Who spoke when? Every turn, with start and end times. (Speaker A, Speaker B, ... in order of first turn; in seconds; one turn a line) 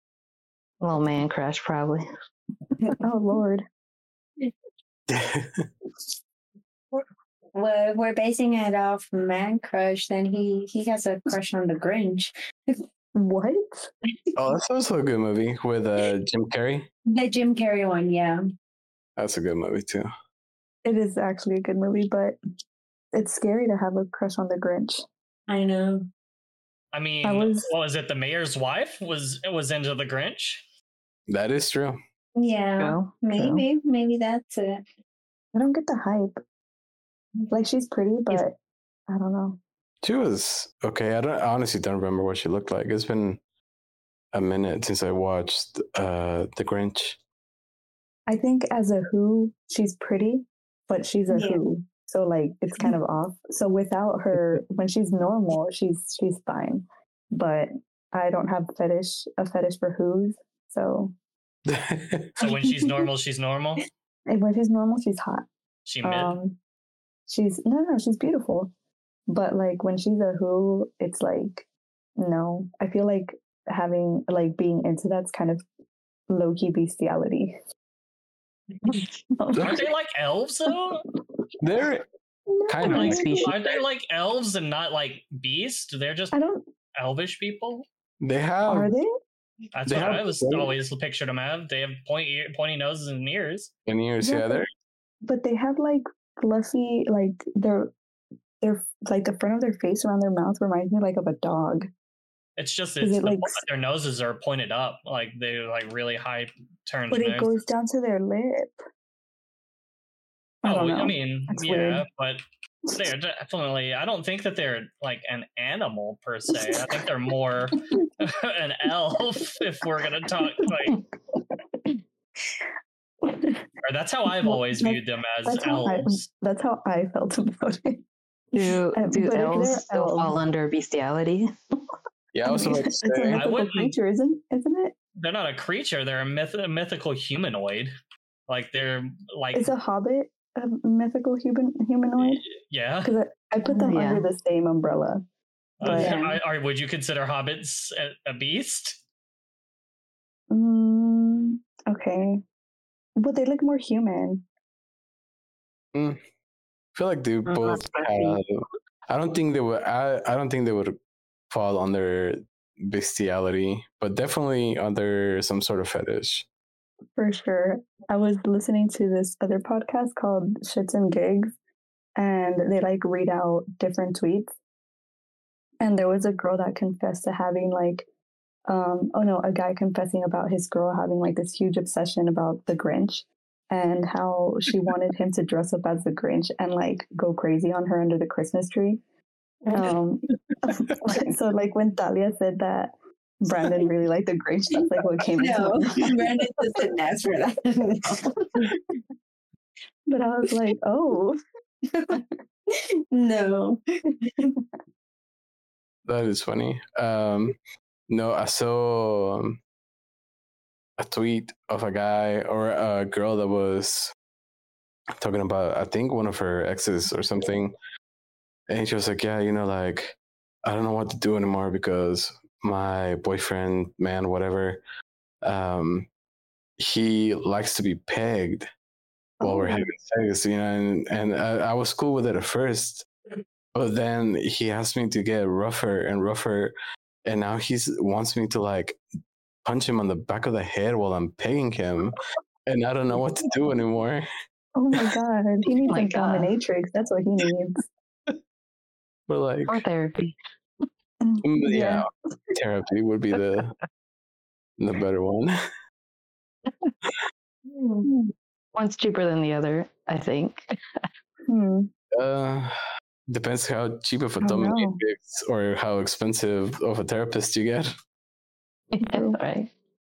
Speaker A: 0.8-2.0
Speaker B: 3.0-3.6
Speaker C: 5.1-5.7
Speaker D: 7.5-12.7
Speaker B: 13.1-13.9
Speaker C: 14.3-16.9
Speaker D: 17.1-18.4
Speaker C: 19.2-20.1
Speaker B: 20.8-22.4
Speaker B: 23.1-25.0
Speaker D: 25.5-26.1
Speaker E: 26.9-30.6
Speaker B: 27.2-27.7
Speaker C: 31.3-32.0
Speaker D: 32.4-34.8
Speaker A: 32.8-33.6
Speaker B: 35.5-36.4
Speaker B: 37.5-38.5
Speaker B: 39.1-39.6
Speaker C: 40.0-43.4
Speaker C: 44.3-47.2
Speaker B: 48.3-61.1
Speaker D: 51.3-51.6
Speaker C: 61.6-62.3
Speaker E: 62.4-63.8
Speaker B: 64.3-65.5
Speaker E: 65.9-66.4
Speaker B: 66.0-66.6
Speaker B: 67.3-68.7
Speaker B: 69.3-71.6
Speaker B: 72.2-75.6
Speaker B: 76.3-77.6
Speaker B: 78.9-79.8
Speaker E: 79.6-81.0
Speaker C: 81.6-82.0
Speaker B: 82.5-83.5
Speaker C: 82.7-83.2
Speaker E: 82.8-86.3
Speaker A: 82.9-83.6
Speaker B: 86.3-86.6
Speaker E: 87.0-87.8
Speaker C: 88.2-88.9
Speaker B: 88.7-89.1
Speaker E: 89.7-93.7
Speaker C: 89.9-90.7
Speaker C: 93.9-94.7
Speaker B: 94.2-94.6
Speaker B: 95.2-97.9
Speaker B: 98.6-101.9
Speaker E: 102.6-107.5
Speaker B: 103.0-103.6
Speaker B: 107.1-108.8
Speaker B: 110.6-112.0
Speaker E: 110.6-112.4
Speaker E: 112.9-121.0
Speaker B: 123.2-123.6
Speaker E: 123.8-126.2
Speaker B: 124.4-128.0
Speaker A: 128.5-131.5
Speaker B: 128.9-130.3
Speaker C: 132.3-133.4
Speaker B: 132.4-134.9
Speaker E: 133.3-134.0
Speaker E: 135.2-137.9
Speaker E: 138.5-139.7
Speaker B: 139.5-142.4
Speaker E: 142.2-143.1
Speaker B: 143.0-145.2
Speaker A: 143.9-144.3
Speaker E: 145.8-149.0
Speaker B: 145.8-146.3
Speaker D: 145.8-146.4
Speaker B: 150.5-152.4
Speaker B: 153.2-154.4
Speaker C: 155.9-156.2
Speaker C: 156.9-161.0
Speaker A: 157.4-158.4
Speaker C: 161.5-166.4
Speaker B: 167.2-171.5
Speaker B: 172.2-174.5
Speaker B: 175.8-178.1
Speaker B: 178.7-189.0
Speaker D: 189.6-189.9
Speaker B: 189.7-196.4
Speaker D: 195.3-198.7
Speaker B: 200.1-201.4
Speaker D: 201.9-202.2
Speaker D: 202.7-204.2
Speaker C: 206.1-207.6
Speaker C: 208.1-209.6
Speaker C: 211.0-214.1
Speaker C: 215.2-217.7
Speaker C: 218.7-224.8
Speaker C: 225.4-226.1
Speaker C: 226.8-228.7
Speaker B: 229.4-229.8
Speaker C: 229.4-233.1
Speaker C: 233.7-236.7
Speaker C: 237.2-239.0
Speaker C: 239.6-242.1
Speaker C: 242.7-244.3
Speaker B: 244.8-247.8
Speaker A: 245.8-246.5
Speaker C: 249.3-249.8
Speaker A: 249.7-250.3
Speaker B: 251.2-252.1
Speaker C: 251.4-253.7
Speaker C: 254.8-255.6
Speaker D: 257.7-258.1
Speaker B: 258.0-258.3
Speaker A: 258.7-260.7
Speaker B: 261.5-261.9
Speaker C: 262.1-262.7
Speaker C: 263.3-267.9
Speaker B: 264.4-265.0
Speaker A: 268.9-269.7
Speaker B: 269.0-269.4